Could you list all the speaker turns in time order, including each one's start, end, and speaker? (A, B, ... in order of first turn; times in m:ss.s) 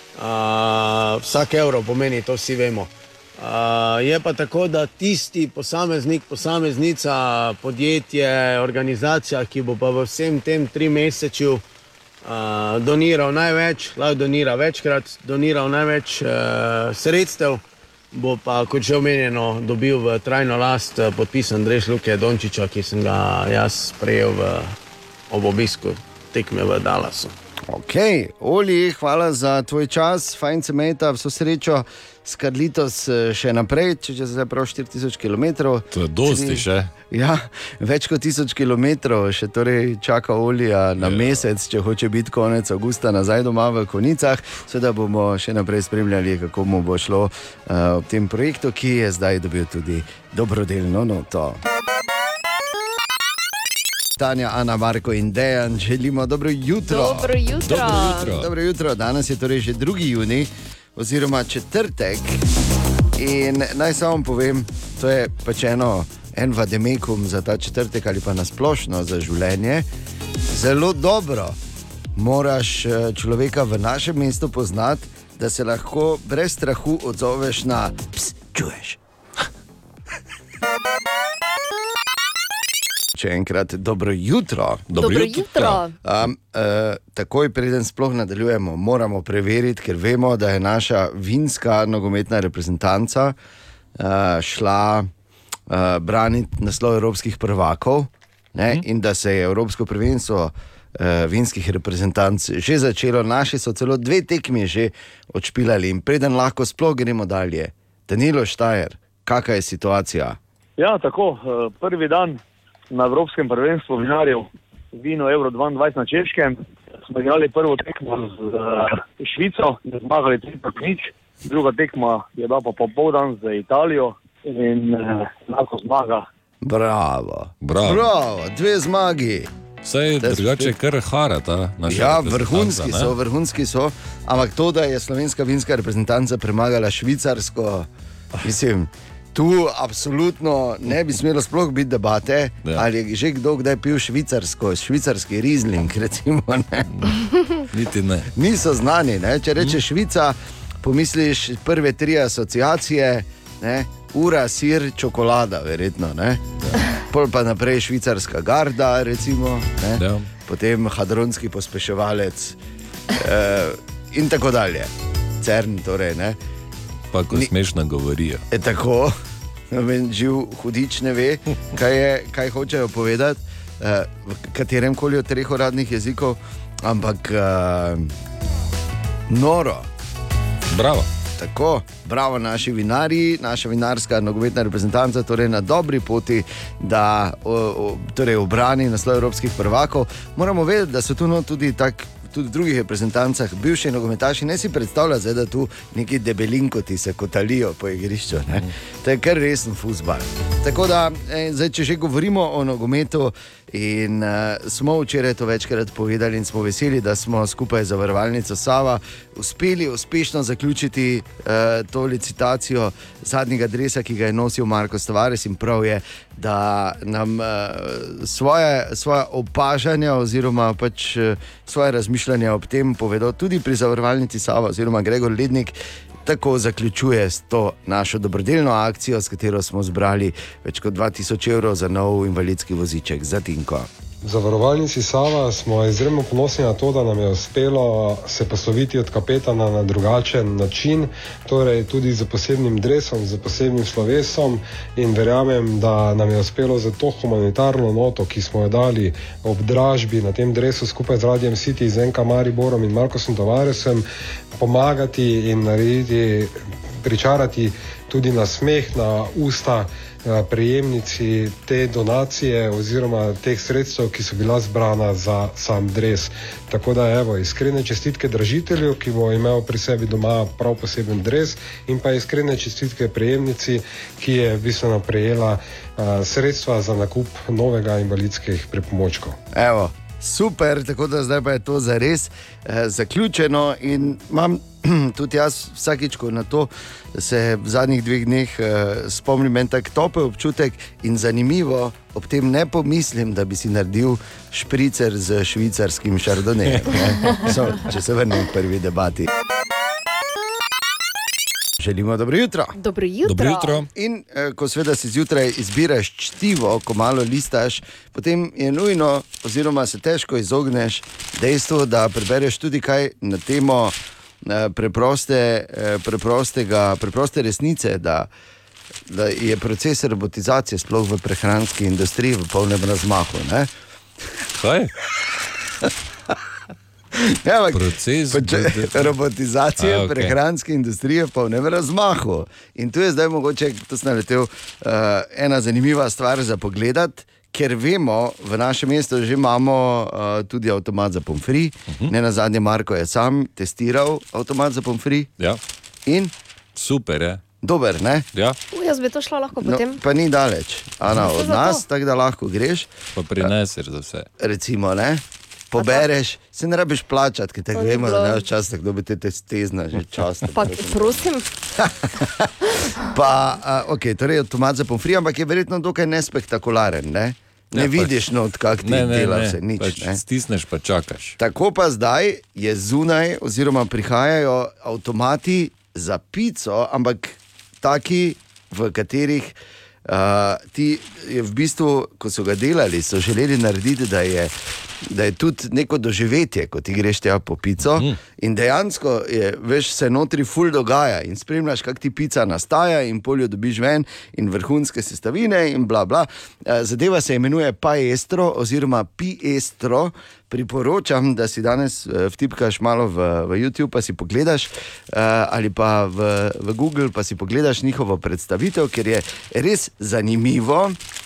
0:00.2-0:11.6 A
0:12.2-0:17.6 A
0:18.1-0:24.8 A
0:25.3-0:27.3 A
0:27.7-0:51.6 B
0:35.9-0:36.9 C
0:41.0-0:41.4 C
0:54.2-0:57.3 B
0:56.8-0:58.4 D
0:57.6-0:58.5 C
0:58.1-1:02.4 B
1:03.2-1:09.9 B
1:10.5-1:11.6 B
1:12.2-1:19.0 B
1:23.1-1:24.8 B
1:24.9-1:25.8 C
1:24.9-1:25.9 D
1:26.0-1:33.3 B
1:34.0-1:35.1 B
1:35.7-1:50.4 B
1:50.8-1:52.4 E
1:52.9-2:06.2 E
2:06.6-2:09.5 B
2:07.6-2:08.0 C
2:09.8-2:13.1 C
2:10.2-2:10.7 B
2:11.9-2:17.9 B
2:18.4-2:26.9 B
2:27.7-2:28.3 C
2:28.3-2:36.4 B
2:37.1-2:42.6 B
2:40.0-2:40.3 C
2:43.1-2:46.4 B
2:47.1-2:48.4 C
2:48.5-2:49.1 B
2:49.7-2:58.1 B
2:59.3-2:59.9 B
3:00.7-3:01.1 C
3:01.4-3:53.9 B
3:54.2-4:14.0 F
4:14.6-4:39.4 F
4:39.5-4:59.3 B
5:01.8-5:02.7 B
5:02.7-5:03.8 D
5:03.2-5:03.9 C
5:03.9-5:18.3 B
5:19.1-5:23.7 B
5:24.6-5:24.9 C
5:27.1-5:45.3 B
5:27.7-5:29.1 C
5:29.8-5:30.4 C
5:46.0-5:46.3 B
5:46.8-5:47.4 C
5:47.6-5:48.2 B
5:48.7-5:50.0 D
5:49.6-5:53.5 B
5:51.2-5:51.8 D
5:53.2-5:54.3 C
5:54.4-6:01.2 B
5:55.8-5:56.0 D
5:57.7-5:58.4 D
6:00.5-6:01.6 D
6:01.8-6:02.5 B
6:03.0-6:10.2 B
6:07.7-6:08.2 C
6:08.8-6:11.4 C
6:11.4-6:19.5 B
6:20.0-6:51.0 B